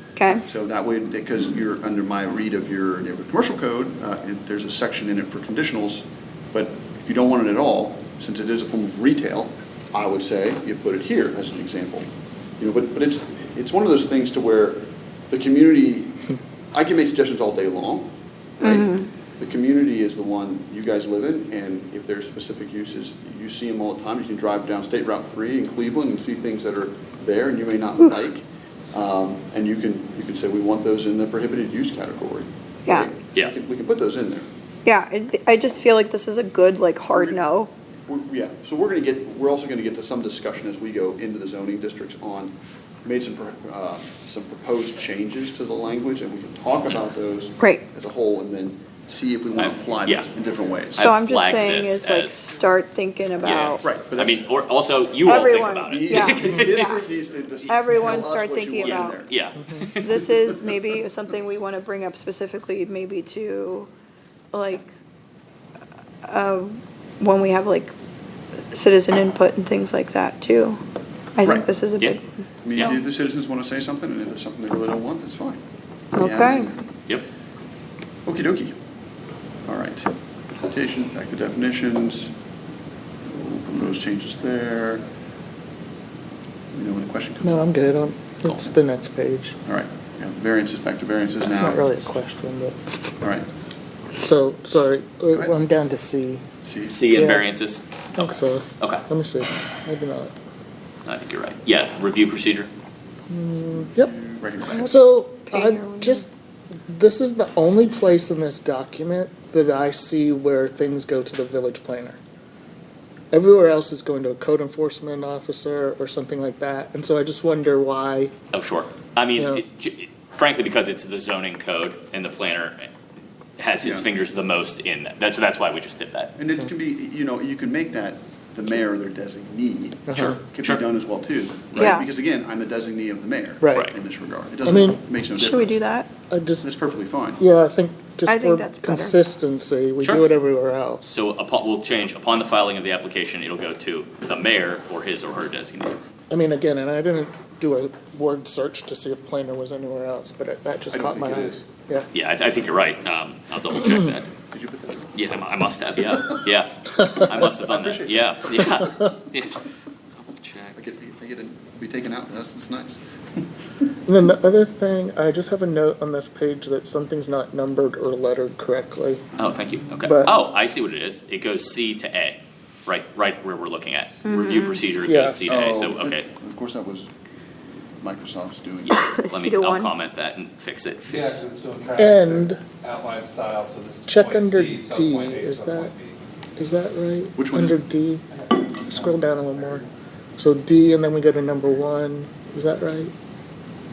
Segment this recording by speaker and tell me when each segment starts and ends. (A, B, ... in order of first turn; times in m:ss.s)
0:00.2-0:00.4 A
0:00.4-0:12.0 B
0:12.6-0:18.1 B
0:18.6-0:19.1 A
0:18.6-0:34.5 B
0:34.8-0:37.7 A
0:37.1-0:37.4 B
0:38.1-0:42.5 B
0:43.0-0:51.0 B
0:49.5-0:50.2 C
0:51.0-0:52.4 C
0:51.0-0:53.8 A
0:53.4-0:56.9 C
0:53.8-0:54.4 B
0:55.2-0:57.0 A
0:55.8-0:59.3 B
0:57.6-0:59.2 A
0:58.8-1:00.1 C
0:59.6-0:59.9 D
0:59.9-1:03.9 A
1:00.1-1:00.7 B
1:04.5-1:04.9 A
1:06.2-1:07.9 A
1:08.7-1:10.8 A
1:11.4-1:12.2 A
1:12.6-1:15.6 B
1:16.1-1:16.7 A
1:16.1-1:16.8 B
1:18.2-1:18.7 B
1:19.6-1:20.1 B
1:20.6-1:22.3 B
1:23.2-1:25.0 B
1:26.7-1:27.6 B
1:27.4-1:29.6 D
1:29.6-1:32.1 B
1:31.4-1:32.8 D
1:33.2-1:33.4 B
1:34.2-1:36.4 D
1:35.3-1:35.6 B
1:36.6-1:37.0 B
1:36.9-1:39.0 C
1:37.1-1:37.4 D
1:38.2-1:40.3 D
1:41.0-1:42.7 C
1:43.3-1:44.1 D
1:43.7-1:44.9 B
1:44.8-1:46.3 D
1:45.5-1:46.2 A
1:46.9-1:52.2 D
1:53.3-1:58.3 D
1:58.5-2:02.8 C
1:59.4-1:59.6 D
2:03.6-2:06.3 C
2:03.8-2:04.1 B
2:06.4-2:15.8 B
2:10.1-2:10.4 D
2:10.1-2:10.8 C
2:11.8-2:12.0 A
2:13.6-2:13.9 D
2:14.6-2:15.0 D
2:15.4-2:16.1 A
2:16.3-2:16.6 D
2:16.6-2:17.4 B
2:17.4-2:21.2 D
2:18.3-2:19.1 A
2:20.0-2:20.3 C
2:21.0-2:26.0 C
2:26.3-2:32.1 D
2:30.9-2:31.6 B
2:32.1-2:34.3 C
2:34.5-2:35.1 B
2:35.1-2:39.6 C
2:37.3-2:38.8 B
2:38.8-2:39.1 D
2:40.2-2:40.8 C
2:40.8-2:43.0 B
2:44.0-2:49.3 D
2:49.4-2:56.3 C
2:50.0-2:50.3 D
2:54.2-2:54.8 A
2:55.0-2:55.4 D
2:55.4-2:57.1 B
2:58.0-2:59.0 B
2:58.8-3:01.4 C
2:58.9-2:59.9 A
3:01.1-3:06.2 E
3:02.0-3:02.6 D
3:04.1-3:05.9 D
3:06.6-3:08.2 D
3:07.4-3:07.8 B
3:08.3-3:09.8 E
3:08.8-3:09.8 D
3:10.4-3:13.1 D